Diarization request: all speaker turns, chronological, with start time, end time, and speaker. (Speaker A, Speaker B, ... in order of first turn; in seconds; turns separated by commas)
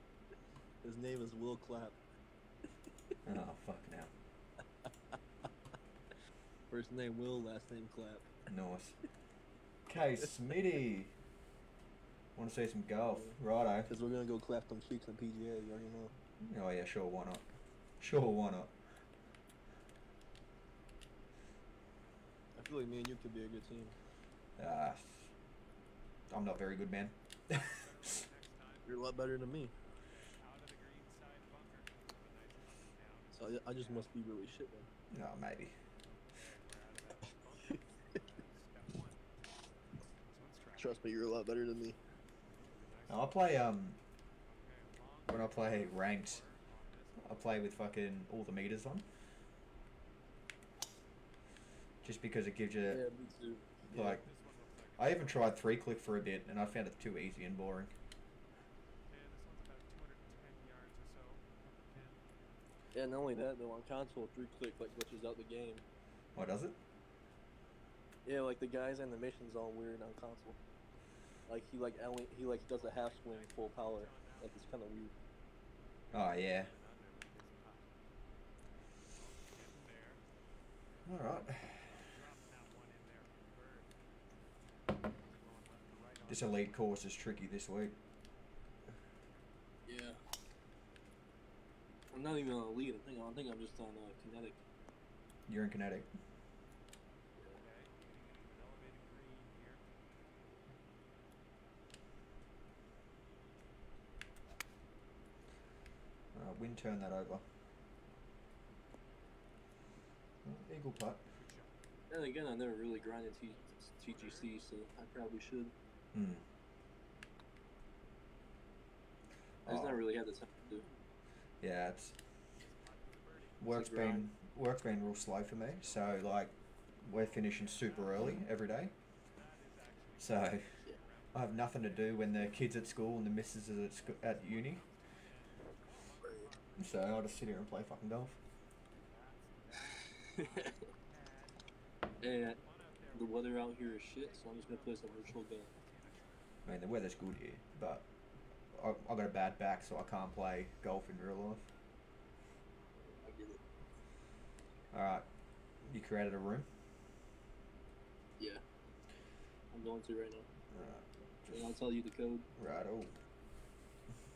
Speaker A: 0.8-2.0, Speaker B: 3.2-4.1, Speaker A: 6.7-8.3, Speaker B: 8.5-9.0, Speaker B: 9.9-11.1, Speaker B: 12.4-13.9, Speaker A: 13.0-13.4, Speaker A: 13.9-16.1, Speaker B: 16.4-17.4, Speaker B: 18.0-18.7, Speaker A: 22.6-24.0, Speaker B: 24.6-25.3, Speaker B: 26.3-27.7, Speaker C: 27.5-34.1, Speaker A: 28.9-29.7, Speaker A: 33.4-34.9, Speaker B: 35.1-35.8, Speaker C: 36.2-39.3, Speaker C: 40.2-41.1, Speaker A: 40.8-42.0, Speaker C: 42.5-43.6, Speaker B: 43.1-44.0, Speaker C: 44.4-48.0, Speaker B: 45.3-46.4, Speaker B: 47.2-49.0, Speaker B: 52.0-53.0, Speaker A: 52.9-54.2, Speaker B: 53.9-54.2, Speaker C: 53.9-55.9, Speaker B: 55.0-57.9, Speaker C: 59.1-62.2, Speaker A: 62.9-65.8, Speaker B: 66.3-66.8, Speaker A: 68.2-70.6, Speaker A: 71.5-75.1, Speaker C: 72.8-75.0, Speaker C: 75.9-78.0, Speaker B: 76.1-76.7, Speaker C: 79.1-80.2, Speaker C: 80.9-84.0, Speaker B: 81.1-82.0, Speaker C: 85.2-86.8, Speaker B: 86.3-88.0, Speaker A: 89.8-90.2, Speaker A: 92.1-94.6, Speaker B: 95.5-96.1, Speaker C: 97.5-99.9, Speaker B: 106.3-107.4, Speaker B: 110.5-111.2, Speaker C: 111.3-111.8, Speaker A: 112.1-115.7, Speaker C: 114.0-114.5, Speaker B: 116.1-116.4, Speaker B: 119.7-120.0, Speaker A: 119.7-120.8, Speaker C: 120.7-121.1, Speaker B: 121.6-122.2, Speaker C: 122.6-123.7, Speaker B: 123.6-128.9, Speaker A: 123.7-124.3, Speaker C: 125.8-126.5, Speaker C: 127.1-128.4, Speaker C: 129.2-133.0, Speaker B: 130.2-130.7, Speaker B: 131.3-134.8, Speaker C: 133.9-137.4, Speaker B: 136.8-138.4, Speaker C: 139.0-146.7, Speaker A: 142.2-142.6, Speaker A: 143.2-145.7, Speaker B: 146.7-148.1, Speaker B: 148.7-151.7, Speaker A: 153.1-153.6, Speaker B: 154.9-155.3, Speaker B: 155.8-156.7, Speaker A: 158.4-158.6, Speaker A: 159.7-160.5, Speaker B: 160.7-161.8, Speaker A: 161.5-162.5, Speaker B: 162.6-163.2